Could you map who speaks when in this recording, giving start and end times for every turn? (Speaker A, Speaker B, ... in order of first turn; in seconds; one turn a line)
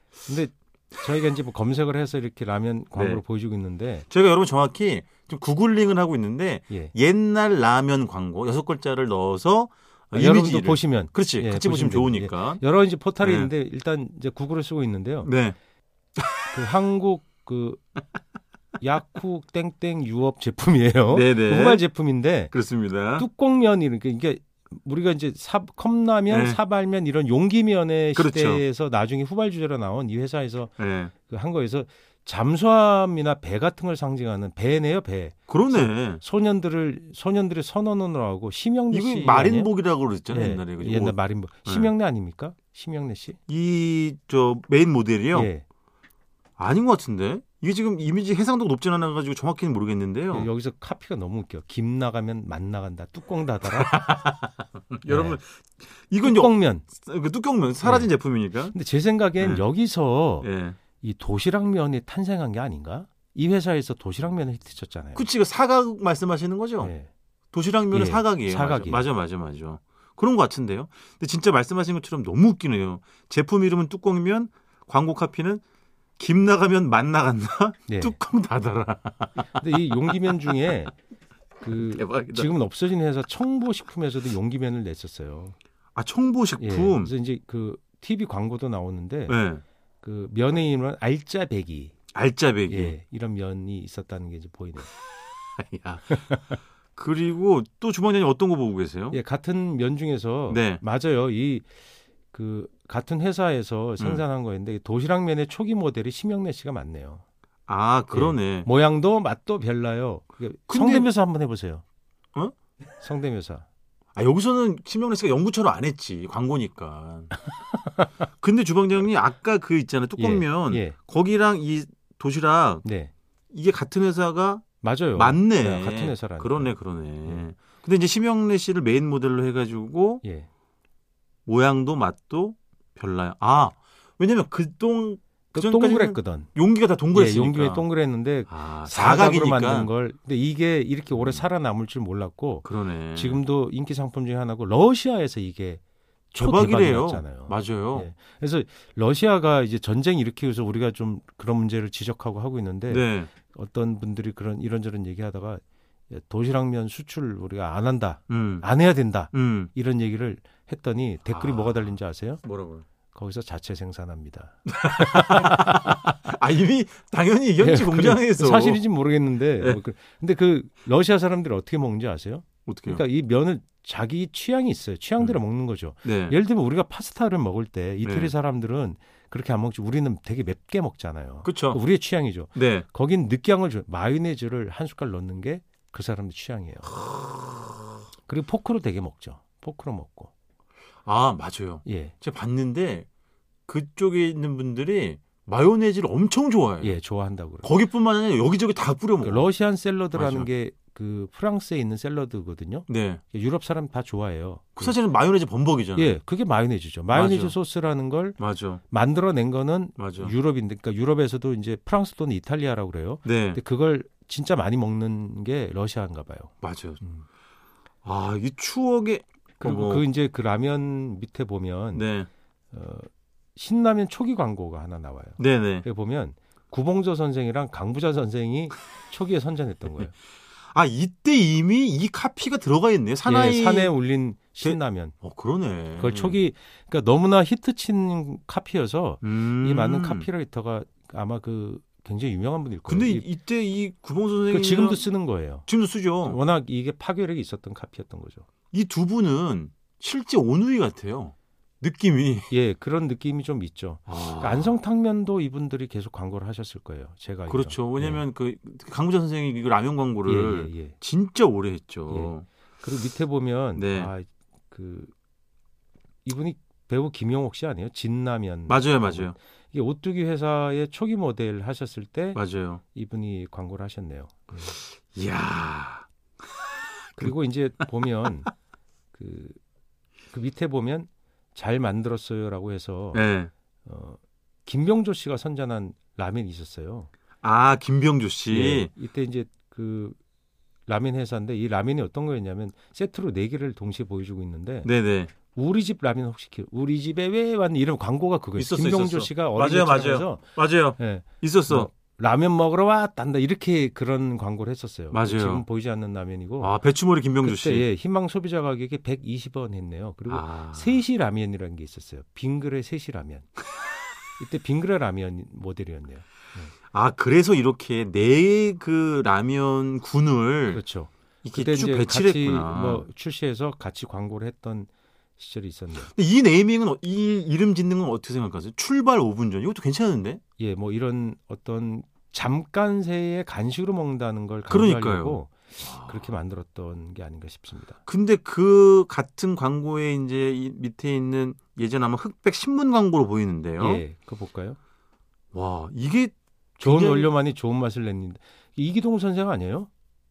Speaker A: 0.3-4.1
Speaker B: 2.9-3.2
Speaker B: 4.1-12.6
Speaker A: 10.1-15.3
Speaker B: 13.2-13.5
Speaker B: 15.2-15.6
Speaker A: 16.5-17.8
Speaker A: 18.8-22.5
Speaker B: 21.1-21.9
Speaker B: 22.5-23.3
Speaker A: 23.2-30.7
Speaker B: 26.3-26.6
Speaker B: 28.1-28.6
Speaker B: 30.8-31.1
Speaker A: 31.2-39.7
Speaker B: 35.5-36.2
Speaker B: 38.9-41.9
Speaker A: 40.3-43.4
Speaker B: 43.5-45.5
Speaker A: 45.3-45.6
Speaker B: 46.6-50.5
Speaker A: 50.3-54.0
Speaker B: 53.7-58.8
Speaker A: 55.1-55.4
Speaker A: 56.2-56.9
Speaker A: 57.8-58.1
Speaker A: 58.7-60.5
Speaker B: 59.4-59.6
Speaker B: 60.4-60.8
Speaker A: 61.0-65.2
Speaker B: 65.2-66.9
Speaker A: 66.8-67.1
Speaker B: 67.5-75.6
Speaker A: 67.9-69.0
Speaker B: 76.2-80.0
Speaker A: 77.9-78.2
Speaker A: 79.6-80.9
Speaker A: 81.6-85.5
Speaker B: 81.7-82.5
Speaker B: 86.0-87.1
Speaker A: 86.6-89.4
Speaker B: 89.3-89.6
Speaker A: 90.0-92.0
Speaker B: 92.1-93.0
Speaker A: 92.7-94.9
Speaker B: 95.6-96.4
Speaker A: 96.1-96.5
Speaker B: 97.0-99.2
Speaker A: 99.1-101.7
Speaker B: 100.5-100.8
Speaker A: 102.3-107.2
Speaker B: 104.0-104.2
Speaker B: 107.7-108.7
Speaker A: 108.1-111.8
Speaker B: 110.7-111.1
Speaker A: 113.0-113.7
Speaker B: 114.2-117.3
Speaker B: 118.4-122.8
Speaker A: 120.2-121.0
Speaker A: 122.8-123.1
Speaker B: 123.5-130.2
Speaker A: 124.8-127.5
Speaker A: 130.2-130.5
Speaker B: 131.5-137.8
Speaker A: 135.5-136.5
Speaker A: 137.1-145.8
Speaker B: 138.5-139.9
Speaker B: 141.1-141.5
Speaker B: 142.7-143.4
Speaker A: 146.3-162.4
Speaker B: 146.4-148.1
Speaker B: 152.9-153.3
Speaker B: 158.3-158.7
Speaker B: 159.3-159.7
Speaker B: 161.3-161.9
Speaker B: 162.4-162.8
Speaker A: 163.1-165.9
Speaker B: 164.7-168.8
Speaker A: 167.6-187.1
Speaker B: 172.7-173.0
Speaker B: 176.1-176.4
Speaker B: 178.0-178.3
Speaker B: 181.4-181.8
Speaker B: 182.5-182.9
Speaker B: 187.0-187.6
Speaker A: 188.3-190.3
Speaker B: 191.1-193.1
Speaker A: 191.8-192.2
Speaker B: 193.7-197.0
Speaker A: 196.8-197.7
Speaker B: 197.6-199.5
Speaker A: 199.2-205.0
Speaker B: 200.1-200.5
Speaker B: 202.9-203.2
Speaker B: 204.8-206.2
Speaker A: 206.0-208.4
Speaker B: 207.1-207.6
Speaker B: 208.4-208.8
Speaker A: 208.9-217.2
Speaker B: 210.0-210.3
Speaker B: 213.2-213.6
Speaker B: 216.6-217.0
Speaker B: 218.1-220.1
Speaker A: 219.6-222.1
Speaker B: 221.9-222.3
Speaker A: 222.7-230.1
Speaker B: 225.4-225.9
Speaker B: 230.7-234.0
Speaker A: 233.3-235.2
Speaker B: 234.6-236.4
Speaker A: 236.0-243.2
Speaker B: 239.2-240.3
Speaker B: 242.9-245.1
Speaker A: 244.5-245.7
Speaker B: 245.7-246.4
Speaker A: 246.2-248.5
Speaker B: 248.7-252.5
Speaker A: 252.5-258.2
Speaker B: 254.1-254.7
Speaker B: 257.5-262.5
Speaker A: 260.3-261.0
Speaker A: 262.1-265.1
Speaker B: 263.8-264.1
Speaker A: 266.2-274.8
Speaker B: 268.7-269.4
Speaker B: 272.4-272.8
Speaker B: 274.7-276.1
Speaker A: 277.2-278.5
Speaker A: 279.1-279.6
Speaker A: 280.3-283.2
Speaker B: 283.1-283.5
Speaker A: 283.9-287.1
Speaker B: 287.4-288.9
Speaker A: 288.5-290.2
Speaker A: 290.9-294.9
Speaker B: 294.9-295.3
Speaker A: 295.5-306.8
Speaker B: 298.6-301.9
Speaker B: 305.1-305.6
Speaker B: 306.6-307.9
Speaker A: 307.4-313.5
Speaker B: 310.3-311.0
Speaker A: 314.4-316.7
Speaker B: 316.9-320.8
Speaker A: 320.7-326.1
Speaker B: 321.4-323.1
Speaker B: 326.0-330.4
Speaker A: 330.6-338.0
Speaker B: 334.7-336.3
Speaker B: 338.1-344.0
Speaker A: 343.8-344.8
Speaker B: 345.5-347.3
Speaker A: 346.8-349.9